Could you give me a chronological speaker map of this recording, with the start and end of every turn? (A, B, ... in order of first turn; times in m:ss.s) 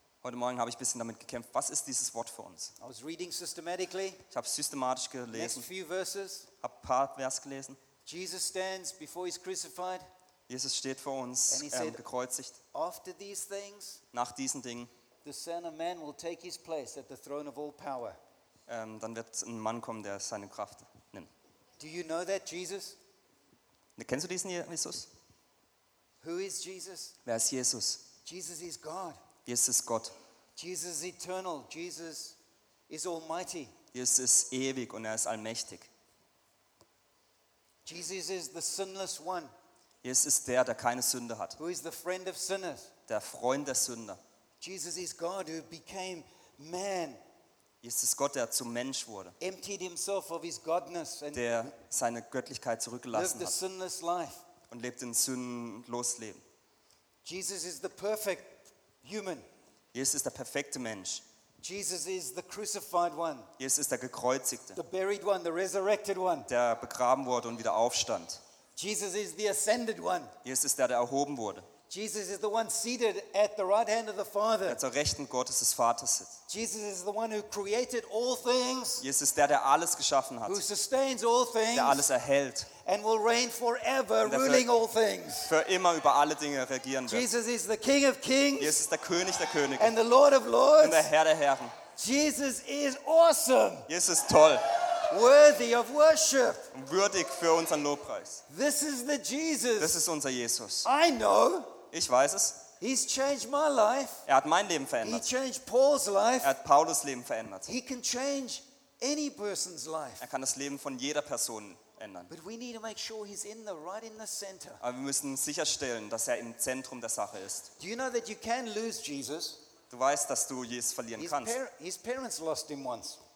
0:00.2-0:02.7 A
0:02.8-0:04.2 B
0:04.3-0:05.7 A
0:05.3-0:06.5 B
0:06.6-0:07.8 A
0:08.0-0:10.0 B
0:10.5-0:12.6 A
0:11.5-0:12.0 B
0:12.7-0:14.0 B
0:14.1-0:14.9 A
0:15.2-0:18.2 B
0:18.7-0:21.3 A
0:21.8-0:23.0 B
0:24.0-0:25.1 A
0:26.2-0:27.2 B
0:27.2-0:28.1 A
0:28.2-0:29.2 B
0:29.5-0:30.1 A
0:30.6-0:32.4 B
0:32.9-0:33.7 B
0:33.9-0:35.9 A
0:37.9-0:39.5 B
0:40.0-0:41.6 A
0:41.6-0:42.9 B
0:43.1-0:44.2 A
0:44.6-0:47.2 B
0:47.8-0:49.4 A
0:49.4-0:51.7 B
0:51.3-0:53.6 A
0:53.1-0:54.4 B
0:54.7-0:56.4 A
0:57.2-0:59.4 B
0:59.9-1:01.2 A
1:01.6-1:03.5 B
1:03.6-1:04.8 A
1:04.8-1:06.5 B
1:06.5-1:08.4 A
1:08.8-1:10.4 B
1:10.4-1:11.7 A
1:11.9-1:14.8 B
1:14.7-1:16.4 A
1:16.5-1:19.0 B
1:19.0-1:20.6 A
1:20.4-1:22.1 B
1:21.7-1:22.7 A
1:22.8-1:25.5 B
1:24.2-1:24.7 A
1:25.5-1:27.3 A
1:27.1-1:28.8 B
1:28.6-1:30.0 A
1:29.8-1:31.1 B
1:30.8-1:31.8 A
1:32.0-1:33.9 B
1:33.9-1:34.8 A
1:35.0-1:36.7 B
1:36.7-1:38.4 A
1:38.5-1:40.0 B
1:39.8-1:40.9 A
1:40.8-1:41.8 B
1:41.9-1:42.7 A
1:42.8-1:44.3 B
1:44.3-1:45.3 A
1:45.0-1:46.5 B
1:46.4-1:47.7 A
1:47.7-1:50.3 B
1:50.2-1:52.3 A
1:52.3-1:54.8 B
1:54.8-1:57.7 A
1:57.8-1:59.6 B
1:59.9-2:01.6 A
2:01.2-2:03.2 B